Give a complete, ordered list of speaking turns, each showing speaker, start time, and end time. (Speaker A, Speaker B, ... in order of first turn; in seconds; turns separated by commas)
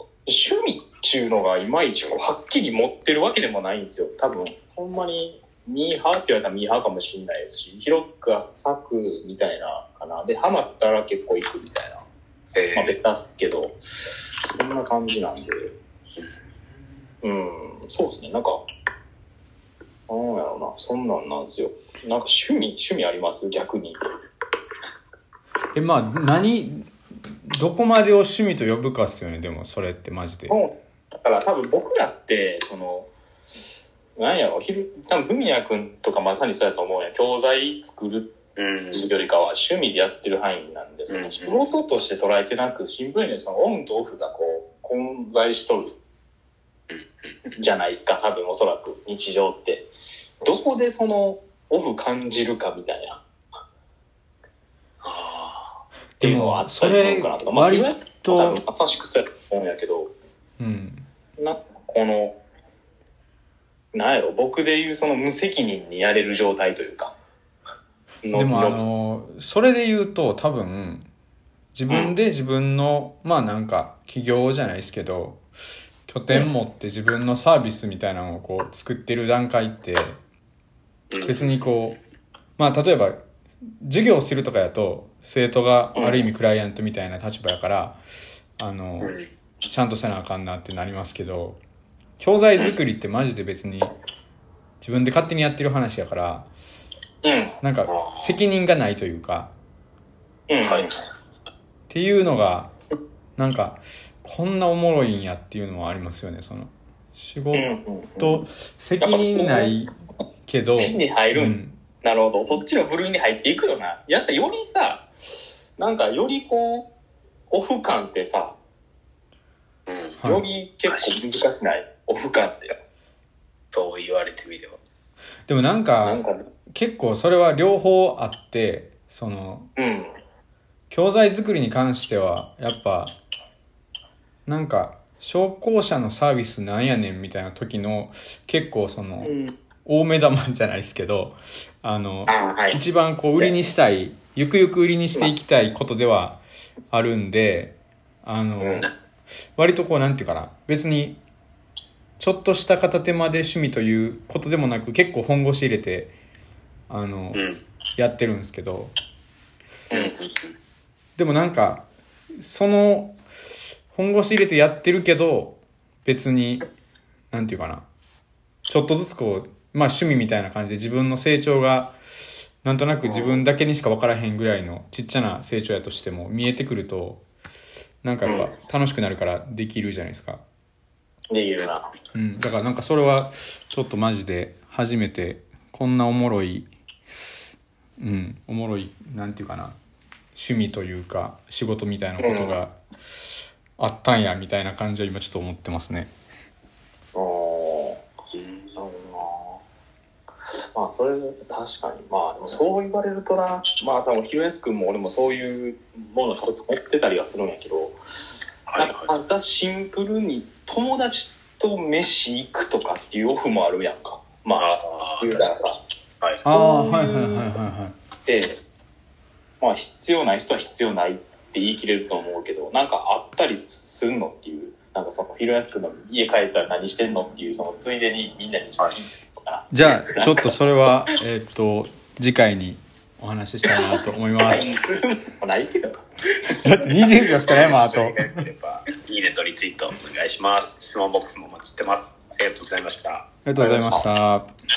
Speaker A: 0.2-12.0, Speaker B: 12.5-12.9, Speaker A: 12.7-15.7, Speaker A: 17.2-18.6, Speaker A: 20.1-24.0, Speaker C: 25.7-26.9, Speaker C: 27.4-30.6, Speaker A: 30.5-33.1, Speaker A: 34.2-38.3, Speaker B: 38.5-39.1, Speaker A: 38.9-45.9, Speaker B: 41.1-41.7, Speaker B: 46.9-47.4, Speaker A: 47.5-49.9, Speaker A: 50.4-53.2, Speaker B: 55.0-55.8, Speaker C: 56.2-58.6, Speaker A: 56.2-60.1, Speaker C: 60.6-61.0, Speaker A: 61.4-62.4, Speaker A: 63.9-67.1, Speaker A: 68.2-68.8, Speaker C: 68.3-71.1, Speaker C: 71.7-75.4, Speaker C: 76.1-80.2, Speaker B: 81.1-81.7, Speaker C: 81.2-82.0, Speaker C: 82.6-83.2, Speaker C: 83.8-88.0, Speaker A: 85.9-86.2, Speaker C: 88.6-89.1, Speaker B: 89.0-89.3, Speaker C: 89.7-91.6, Speaker C: 92.2-93.9, Speaker C: 94.8-96.5, Speaker A: 97.2-97.5, Speaker C: 97.6-99.5, Speaker B: 97.9-98.4, Speaker A: 100.5-100.9, Speaker B: 100.6-100.9, Speaker C: 101.9-102.7, Speaker C: 103.4-109.9, Speaker A: 107.5-108.4, Speaker A: 109.0-109.7, Speaker C: 110.5-111.8, Speaker A: 110.8-115.1, Speaker A: 115.8-116.9, Speaker A: 117.5-118.5, Speaker B: 119.9-120.2, Speaker C: 120.2-120.5, Speaker A: 120.2-122.7, Speaker B: 120.9-121.2, Speaker B: 123.7-124.8, Speaker C: 125.5-129.7, Speaker A: 126.0-126.3, Speaker A: 129.8-130.1, Speaker C: 130.9-133.2, Speaker C: 134.4-139.3, Speaker A: 139.2-139.5, Speaker C: 139.8-146.4, Speaker A: 142.3-142.8, Speaker C: 146.9-148.9, Speaker A: 148.6-148.9, Speaker C: 149.6-151.2, Speaker C: 152.2-156.1, Speaker C: 156.9-157.4, Speaker B: 157.3-157.6, Speaker C: 158.0-158.9, Speaker B: 159.9-160.5, Speaker C: 161.2-161.9, Speaker C: 162.4-163.2, Speaker C: 163.9-166.6, Speaker C: 167.3-167.9, Speaker C: 168.7-172.0, Speaker C: 172.6-177.2, Speaker A: 173.0-173.4, Speaker C: 178.0-180.4, Speaker A: 178.2-178.5, Speaker A: 181.3-181.9, Speaker C: 182.1-186.7, Speaker C: 188.0-189.8, Speaker C: 190.3-192.8, Speaker A: 192.2-192.6, Speaker C: 193.8-196.1, Speaker A: 197.1-198.0, Speaker B: 198.3-198.7, Speaker A: 198.8-199.6, Speaker A: 200.7-208.0, Speaker B: 208.7-209.1, Speaker A: 208.8-215.8, Speaker B: 214.6-215.5, Speaker C: 216.4-217.9, Speaker A: 216.5-217.5, Speaker A: 218.2-218.6, Speaker A: 219.6-230.5, Speaker C: 229.7-234.7, Speaker A: 234.5-236.0, Speaker C: 236.6-238.4, Speaker B: 237.6-243.3, Speaker C: 243.4-244.5, Speaker A: 243.6-244.1